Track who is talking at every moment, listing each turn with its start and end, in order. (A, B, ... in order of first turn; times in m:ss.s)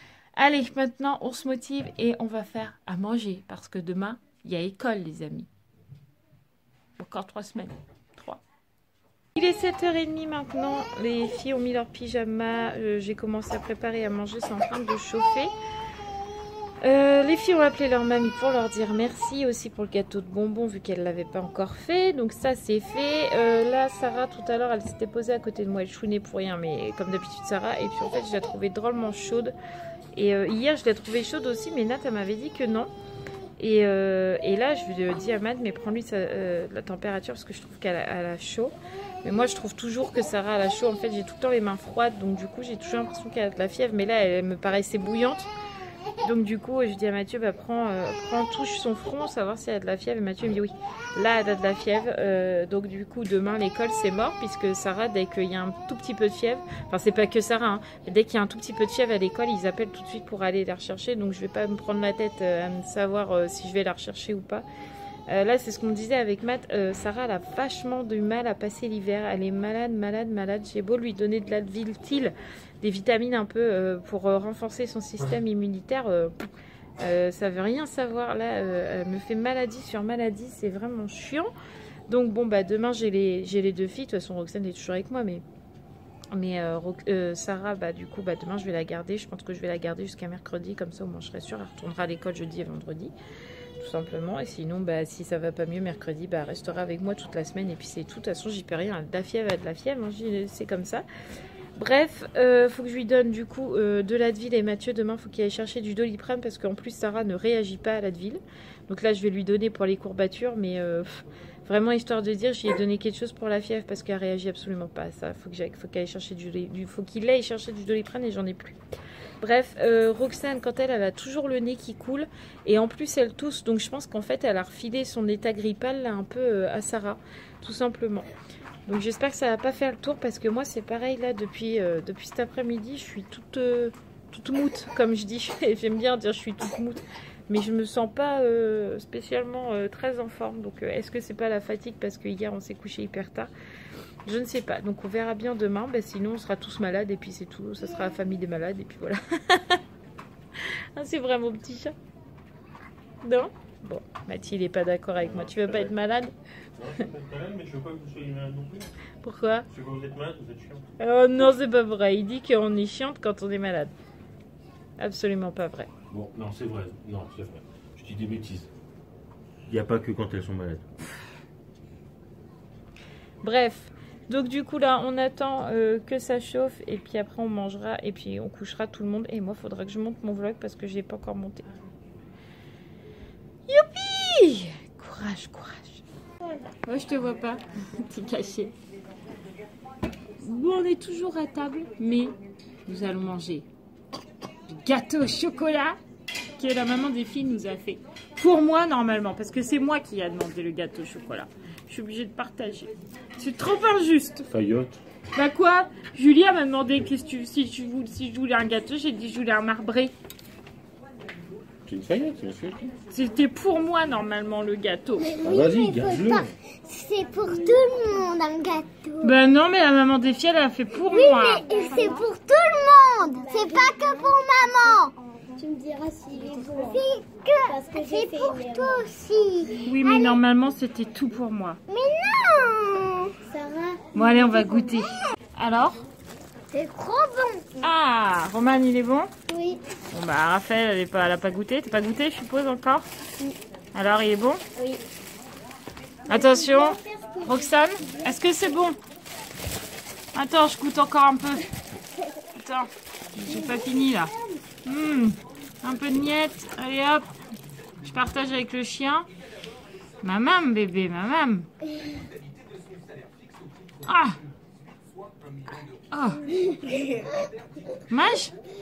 0:00.4-0:05.5 A
0:07.0-0:08.4 A
0:09.4-0:15.5 A
0:16.8-0:29.5 A
0:30.1-0:32.9 A
0:33.6-0:45.5 A
0:46.2-1:04.6 A
1:05.3-1:16.5 A
1:17.0-1:21.5 A
1:22.1-1:25.4 A
1:26.3-1:33.1 A
1:33.8-1:41.0 A
1:41.8-1:58.8 A
1:59.4-2:08.3 A
2:08.8-2:23.5 A
2:24.2-2:29.8 A
2:30.6-2:31.9 A
2:33.2-2:36.3 A
2:35.2-2:35.9 B
2:36.8-2:38.9 B
2:39.2-2:39.7 A
2:39.7-2:40.8 B
2:41.0-2:43.9 A
2:45.0-2:45.9 A
2:46.1-2:48.7 B
2:49.7-2:50.8 B
2:53.4-3:01.7 A
3:03.7-3:06.0 A
3:06.8-3:08.7 A
3:10.4-3:12.3 A
3:12.8-3:13.6 A
3:14.7-3:16.0 A
3:16.6-3:24.5 A
3:24.5-3:25.0 B
3:25.3-3:30.1 A
3:31.8-3:32.9 B
3:33.1-3:35.3 A
3:35.2-3:39.3 C
3:35.4-3:36.5 B
3:37.4-3:38.1 D
3:39.2-3:42.3 A
3:41.1-3:45.1 C
3:41.6-3:42.3 D
3:43.2-3:47.0 D
3:46.7-3:50.4 C
3:47.6-3:49.1 D
3:49.8-3:51.8 A
3:51.9-3:53.4 C
3:53.4-3:54.0 D
3:54.1-3:56.0 A
3:54.6-3:55.0 C
3:56.7-3:57.8 C
3:57.8-3:59.3 A
3:59.5-3:59.8 C
4:00.1-4:03.0 A
4:03.9-4:04.6 A
4:04.8-4:05.0 C
4:06.3-4:09.0 A
4:06.3-4:07.6 C
4:10.3-4:11.7 A
4:12.5-4:14.3 A
4:13.5-4:13.8 D
4:13.6-4:13.8 C
4:14.8-4:17.3 A
4:18.0-4:19.3 A
4:20.2-4:21.7 A
4:24.0-4:24.4 A
4:26.1-4:26.4 A
4:26.6-4:27.4 D
4:28.1-4:28.5 A